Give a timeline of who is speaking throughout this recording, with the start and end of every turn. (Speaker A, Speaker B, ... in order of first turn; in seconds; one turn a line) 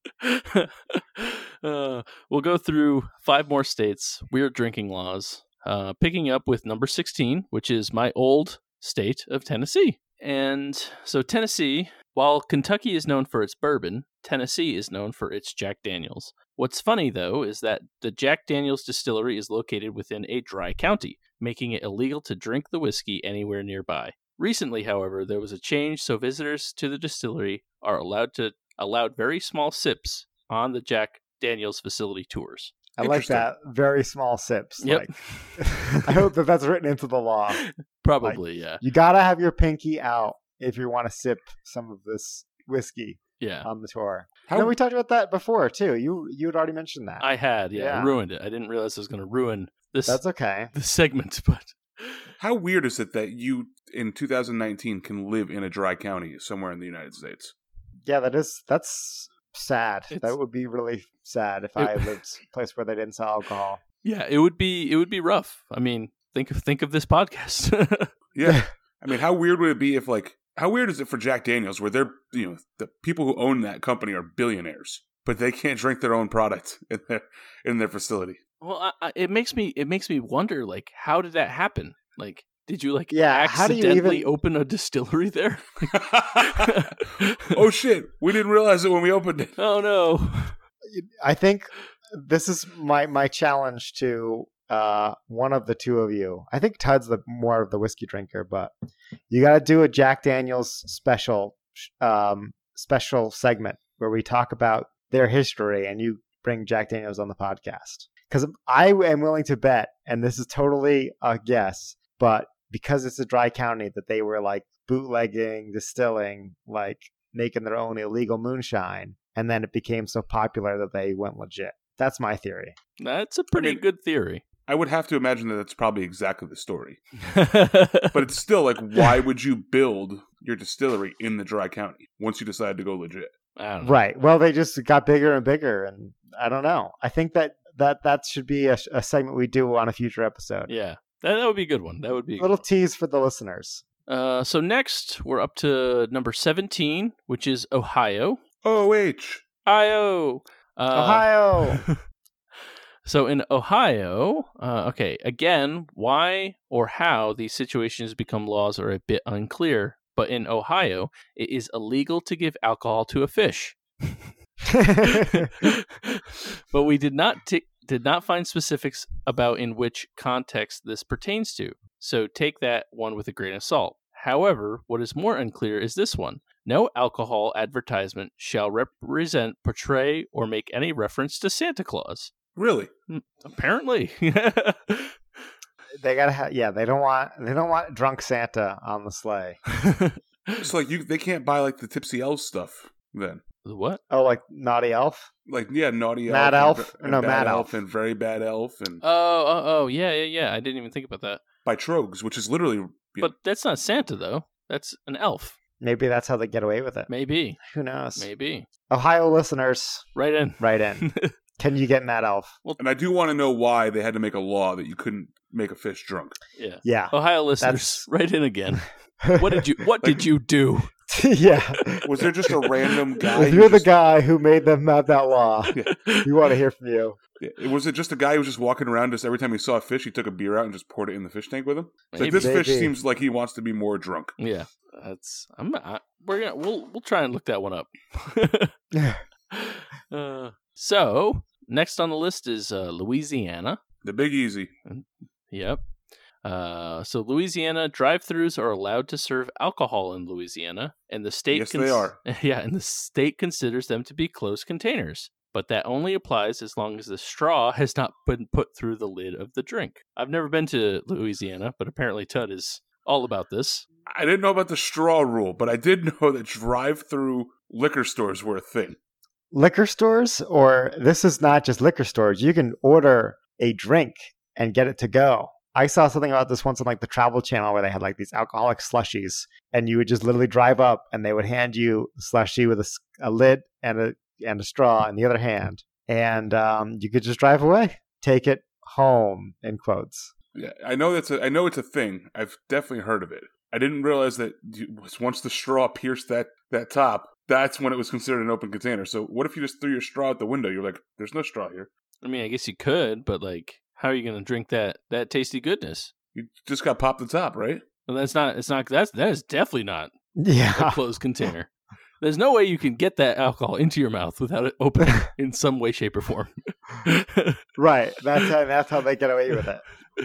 Speaker A: 0.2-32.7
Speaker B: 33.0-37.6
Speaker C: 33.0-33.5
Speaker A: 34.8-36.2
Speaker A: 37.6-38.8
Speaker B: 38.2-48.2
Speaker A: 43.4-43.7
Speaker C: 44.5-44.8
Speaker A: 47.2-50.2
Speaker B: 50.0-50.7
Speaker A: 50.7-52.2
Speaker C: 52.4-57.5
Speaker B: 58.0-63.8
Speaker A: 60.1-60.4
Speaker A: 61.8-62.1
Speaker A: 64.0-68.1
Speaker C: 68.3-78.4
Speaker A: 78.6-87.4
Speaker B: 83.1-84.3
Speaker C: 85.9-86.8
Speaker C: 87.5-89.5
Speaker A: 89.6-90.6
Speaker B: 90.8-98.7
Speaker B: 99.3-122.8
Speaker A: 123.0-124.4
Speaker C: 123.5-123.8
Speaker C: 124.7-127.0
Speaker A: 127.2-128.1
Speaker C: 128.1-133.3
Speaker A: 133.6-134.0
Speaker B: 133.8-140.7
Speaker A: 140.7-142.6
Speaker B: 142.4-143.8
Speaker A: 144.1-148.4
Speaker C: 148.6-149.4
Speaker A: 149.6-152.0
Speaker B: 150.9-151.8
Speaker A: 153.0-164.3
Speaker B: 164.7-165.5
Speaker A: 165.0-182.3
Speaker C: 182.6-182.9
Speaker A: 183.1-185.2
Speaker B: 186.0-189.6
Speaker A: 189.7-190.6
Speaker C: 190.6-193.4
Speaker A: 193.6-194.0
Speaker B: 194.1-195.3
Speaker C: 195.4-199.0
Speaker B: 196.3-197.8
Speaker A: 199.0-201.4
Speaker C: 201.6-203.3
Speaker A: 203.2-205.6
Speaker B: 205.8-207.1
Speaker A: 207.1-207.6
Speaker B: 207.6-208.3
Speaker A: 208.2-208.7
Speaker B: 208.9-210.1
Speaker A: 210.1-211.3
Speaker B: 210.6-212.6
Speaker C: 212.8-216.3
Speaker A: 216.6-220.9
Speaker B: 216.8-218.1
Speaker B: 219.2-219.6
Speaker C: 220.0-220.3
Speaker B: 221.1-222.6
Speaker C: 222.0-223.9
Speaker B: 223.3-227.2
Speaker A: 225.9-226.3
Speaker C: 227.4-234.3
Speaker A: 232.1-232.5
Speaker B: 232.3-232.9
Speaker A: 234.4-238.7
Speaker B: 238.9-239.2
Speaker A: 239.5-243.8
Speaker C: 244.0-244.7
Speaker A: 244.8-245.8
Speaker A: 246.4-263.8
Speaker C: 251.5-252.2
Speaker C: 264.1-269.0
Speaker B: 269.5-290.3
Speaker C: 290.5-301.9
Speaker A: 302.2-306.1
Speaker C: 306.3-307.8
Speaker A: 308.1-310.1
Speaker B: 310.4-311.0
Speaker A: 310.7-316.5
Speaker A: 317.0-317.6
Speaker B: 317.8-319.8